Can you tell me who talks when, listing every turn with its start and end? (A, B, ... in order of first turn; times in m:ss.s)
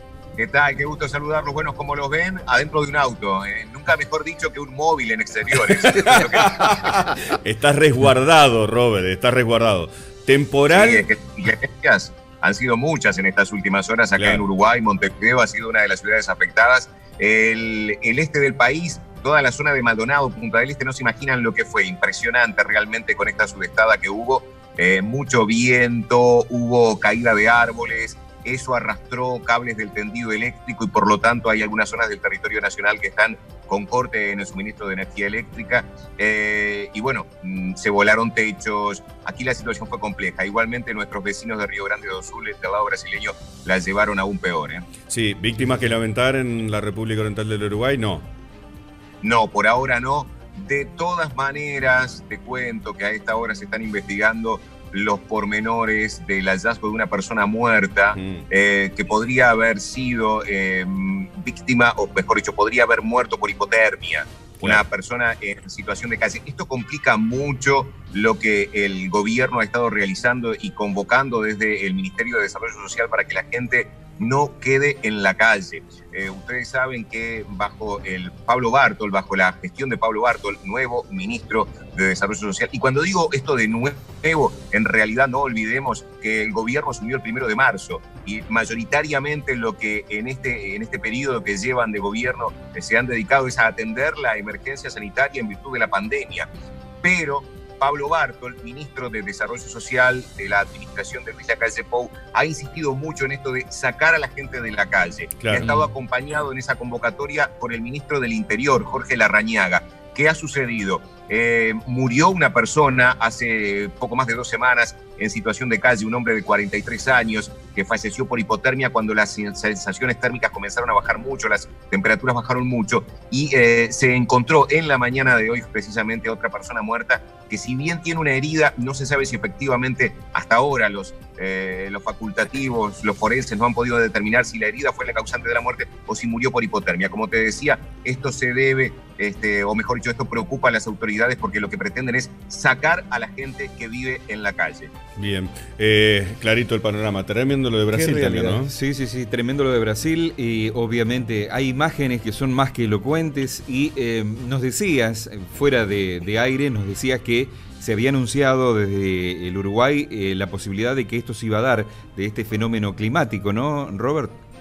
0:00.4-0:06.8 A
0:05.8-0:11.0 B
0:10.7-0:44.9 A
0:14.2-0:14.4 B
0:45.1-0:48.3 B
0:49.2-1:36.5 A
0:58.2-0:58.4 B
1:37.0-2:24.9 A
1:45.4-1:45.7 B
2:25.2-2:28.7 B
2:27.9-2:44.4 C